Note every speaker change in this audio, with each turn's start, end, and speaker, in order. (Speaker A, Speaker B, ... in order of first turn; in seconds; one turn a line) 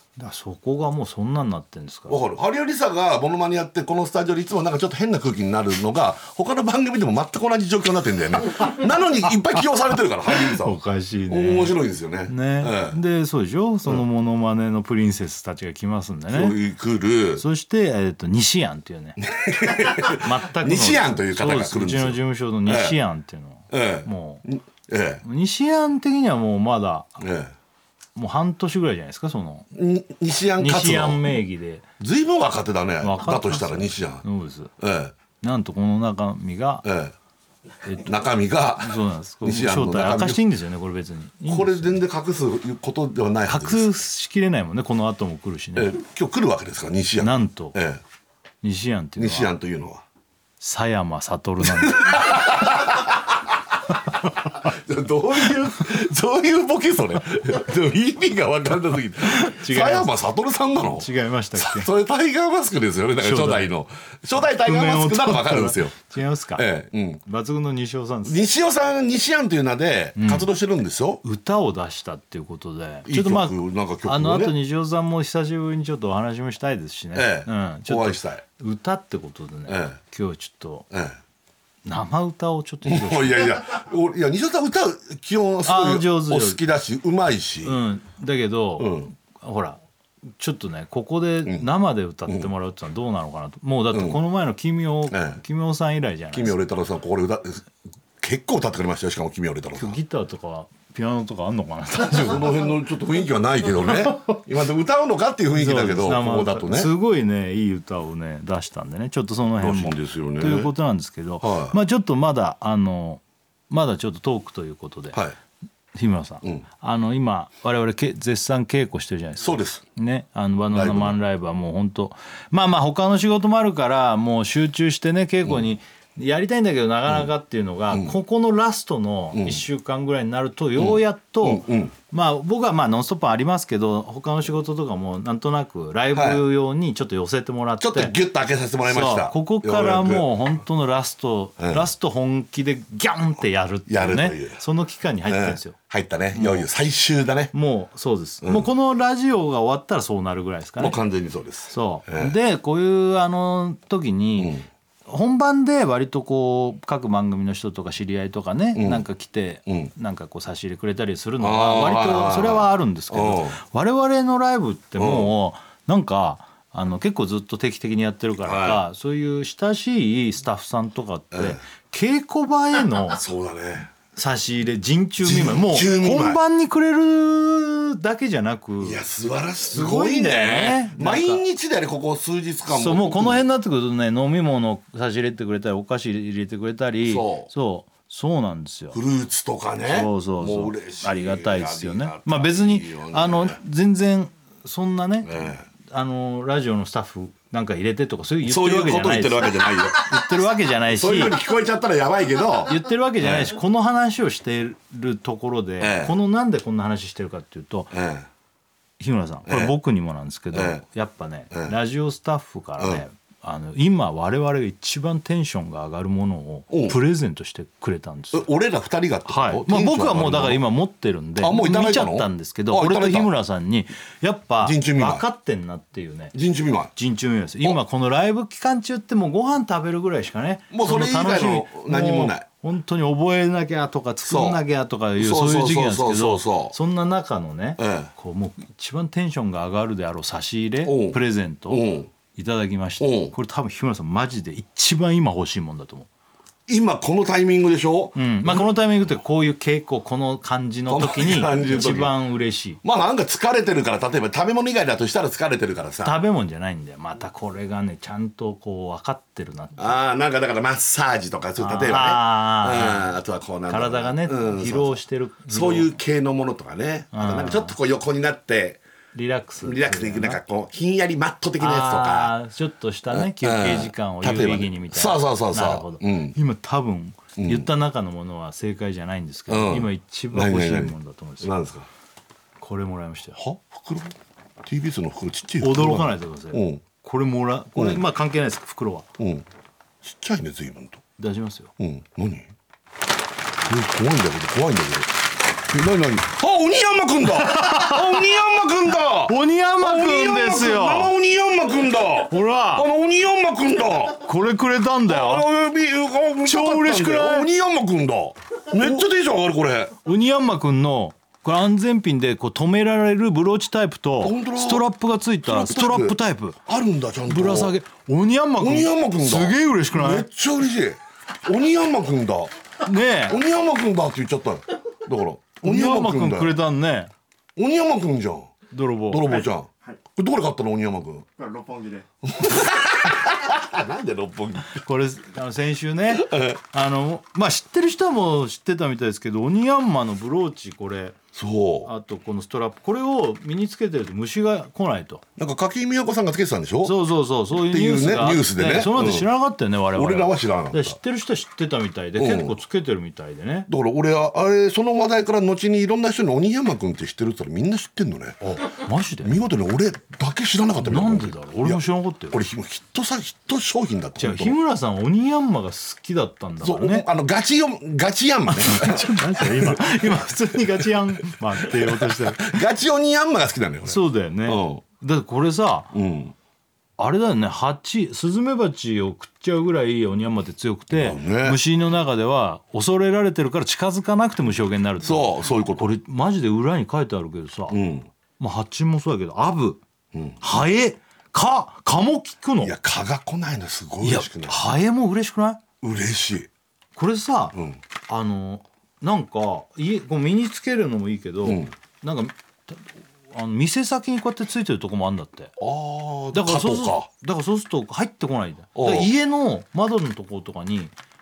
Speaker A: 0.2-2.2
Speaker B: 2.1-10.8
Speaker A: 10.3-16.6
Speaker B: 11.3-13.0
Speaker B: 16.3-17.4
Speaker A: 17.4-19.2
Speaker B: 19.2-23.0
Speaker A: 20.0-24.4
Speaker B: 23.7-25.2
Speaker A: 25.2-27.2
Speaker B: 27.2-27.5
Speaker A: 28.1-29.7
Speaker B: 29.7-31.3
Speaker A: 30.6-31.9
Speaker B: 32.0-34.2
Speaker A: 33.0-34.7
Speaker B: 34.8-35.1
Speaker A: 35.4-36.9
Speaker B: 36.8-37.1
Speaker A: 37.8-42.0
Speaker B: 38.0-40.4
Speaker B: 41.5-43.9
Speaker A: 43.5-46.0
Speaker B: 45.8-48.0
Speaker A: 47.2-47.8
Speaker A: 48.6-49.5
Speaker B: 49.2-50.0
Speaker A: 50.6-52.4
Speaker B: 51.6-53.3
Speaker B: 54.4-67.2
Speaker A: 55.4-55.7
Speaker A: 59.2-60.1
Speaker A: 60.8-61.9
Speaker A: 63.2-63.7
Speaker A: 64.4-66.7
Speaker A: 67.2-68.4
Speaker B: 68.2-71.2
Speaker A: 70.2-70.5
Speaker A: 71.2-80.8
Speaker B: 73.1-74.5
Speaker B: 77.1-78.4
Speaker B: 79.7-80.0
Speaker B: 80.9-81.2
Speaker A: 81.8-83.7
Speaker B: 82.8-87.8
Speaker A: 85.6-86.6
Speaker A: 87.6-89.8
Speaker B: 88.8-89.1
Speaker A: 90.4-96.6
Speaker B: 93.9-94.2
Speaker B: 95.1-95.4
Speaker B: 96.3-97.7
Speaker B: 98.2-100.0
Speaker A: 99.7-102.7
Speaker B: 102.0-106.9
Speaker A: 105.5-115.2
Speaker B: 109.6-110.7
Speaker B: 111.4-111.8
Speaker A: 115.9-138.2
Speaker B: 119.4-119.8
Speaker B: 120.7-121.2
Speaker B: 129.3-129.6
Speaker B: 130.8-131.9
Speaker B: 136.1-136.4
Speaker B: 137.8-140.3
Speaker A: 138.8-145.8
Speaker B: 141.6-141.9
Speaker B: 143.9-144.6
Speaker B: 145.3-147.5
Speaker A: 146.3-146.7
Speaker A: 147.5-151.0
Speaker B: 148.4-148.7
Speaker B: 150.8-152.3
Speaker A: 151.7-173.2
Speaker B: 154.4-154.7
Speaker B: 158.7-159.0
Speaker B: 161.4-163.6
Speaker B: 165.0-165.3
Speaker B: 168.4-168.8
Speaker B: 171.3-171.6
Speaker B: 173.1-173.9
Speaker A: 174.1-179.0
Speaker B: 175.2-176.4
Speaker B: 178.8-183.4
Speaker A: 179.7-181.4
Speaker A: 182.7-189.0
Speaker B: 187.0-187.5
Speaker B: 188.9-193.6
Speaker A: 189.8-195.3
Speaker B: 195.2-195.7
Speaker A: 195.9-201.4
Speaker B: 198.4-200.2
Speaker B: 200.9-203.5
Speaker A: 202.6-208.0
Speaker B: 205.8-206.2
Speaker B: 207.9-208.2
Speaker A: 209.0-218.5
Speaker B: 209.5-209.7
Speaker B: 210.5-210.8
Speaker B: 212.8-213.0
Speaker B: 216.7-217.0
Speaker B: 218.3-220.6
Speaker A: 219.3-226.3
Speaker B: 221.4-223.3
Speaker B: 224.6-225.2
Speaker B: 226.3-226.9
Speaker A: 226.9-246.1
Speaker B: 230.7-232.4
Speaker B: 234.3-234.6
Speaker B: 235.2-236.8
Speaker B: 237.8-238.1
Speaker B: 240.8-242.1
Speaker B: 243.0-243.3
Speaker B: 246.7-248.6
Speaker A: 248.1-252.8
Speaker B: 250.9-252.1
Speaker B: 252.8-256.2
Speaker A: 256.0-260.0
Speaker B: 259.8-268.8
Speaker A: 261.6-263.2
Speaker A: 263.7-265.9
Speaker A: 267.1-267.8
Speaker A: 269.1-270.4
Speaker B: 269.6-272.3
Speaker A: 271.6-281.5
Speaker B: 273.1-276.4
Speaker B: 277.4-277.6
Speaker B: 279.5-281.9
Speaker A: 282.6-283.4
Speaker B: 283.4-284.1
Speaker B: 284.6-286.8
Speaker A: 285.6-289.1
Speaker B: 287.8-288.0
Speaker B: 289.2-289.4
Speaker B: 290.0-291.0
Speaker A: 291.2-291.7
Speaker B: 291.8-292.5
Speaker B: 293.6-295.2
Speaker B: 295.7-304.2
Speaker A: 297.3-298.2
Speaker A: 299.2-301.1
Speaker A: 302.3-302.9
Speaker A: 304.2-305.5
Speaker B: 305.1-309.9
Speaker A: 306.4-307.5
Speaker A: 310.0-316.6
Speaker B: 314.2-314.9
Speaker B: 315.5-317.7
Speaker A: 317.3-320.3
Speaker B: 318.6-322.5
Speaker A: 322.8-323.4
Speaker B: 323.3-326.6
Speaker A: 325.6-327.1
Speaker B: 327.6-328.5
Speaker A: 328.7-329.5
Speaker B: 329.1-334.8
Speaker A: 334.7-341.2
Speaker B: 336.1-336.6
Speaker B: 341.3-341.9
Speaker A: 341.8-345.2
Speaker B: 345.4-349.3
Speaker A: 346.8-353.7
Speaker B: 349.9-351.0
Speaker B: 352.2-352.6
Speaker B: 353.7-358.4
Speaker A: 358.4-359.4
Speaker B: 359.2-364.6
Speaker A: 360.8-362.4
Speaker A: 364.2-367.1
Speaker B: 366.6-369.9
Speaker A: 368.5-372.6
Speaker B: 371.6-374.8
Speaker A: 373.8-375.9
Speaker B: 375.9-376.3
Speaker A: 377.0-387.8
Speaker B: 380.9-381.6
Speaker B: 385.0-385.9
Speaker B: 387.7-388.1
Speaker A: 388.4-389.8
Speaker B: 390.1-390.4
Speaker A: 390.4-392.7
Speaker B: 392.6-394.6
Speaker A: 394.0-395.6
Speaker B: 395.8-396.5
Speaker A: 396.9-397.6
Speaker B: 397.5-397.8
Speaker A: 398.1-405.5
Speaker B: 401.4-401.7
Speaker B: 405.6-407.1
Speaker A: 406.3-410.9
Speaker B: 408.7-409.1